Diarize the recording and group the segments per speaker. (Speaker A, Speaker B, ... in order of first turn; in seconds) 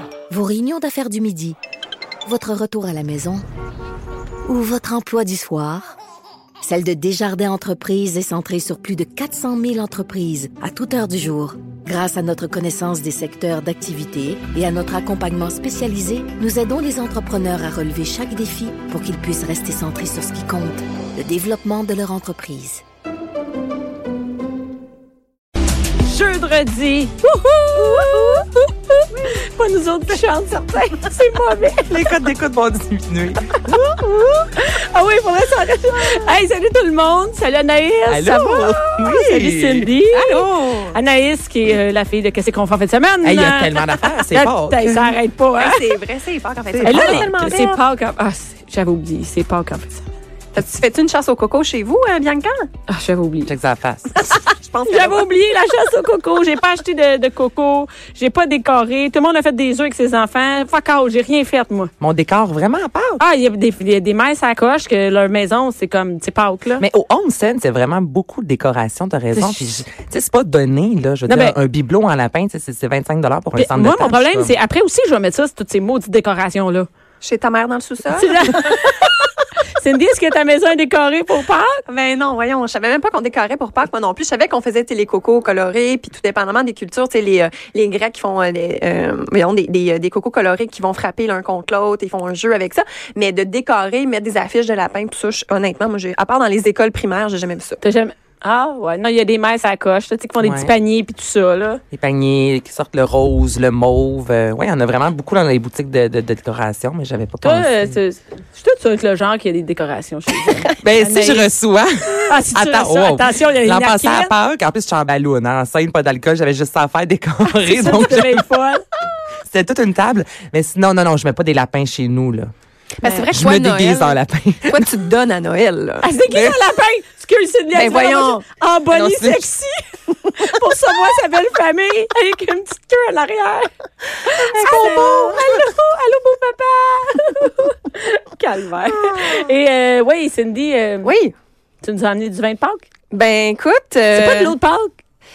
Speaker A: 0.3-1.6, 2.2-3.4, 4.5-5.9, 6.6-22.8
Speaker B: 26.1-32.1, 33.7-45.8, 46.8-50.0, 52.9-53.5, 54.9-61.9, 63.2-66.8, 69.3-69.8, 71.3-71.6, 73.6-76.9, 78.1-79.2, 79.7-81.8, 97.8-101.8, 107.4-111.5, 112.2-114.3, 117.6-118.8, 123.0-123.3, 126.0-141.1, 141.8-142.8, 144.1-144.9
Speaker C: 27.9-28.4, 40.1-41.0, 45.6-47.8, 50.5-52.7, 54.2-55.3, 77.2-78.9, 81.9-97.8, 123.0-126.1, 127.7-128.4, 134.4-135.5, 139.1-139.3, 141.0-141.3, 143.1-144.5
Speaker D: 31.9-33.8, 38.1-39.9, 43.2-45.0, 46.8-47.5, 53.5-54.1, 62.0-63.2, 66.8-74.6, 100.4-100.7, 101.9-108.0, 110.8-118.5, 119.5-122.5, 123.3-124.9, 126.3-126.6, 128.9-129.5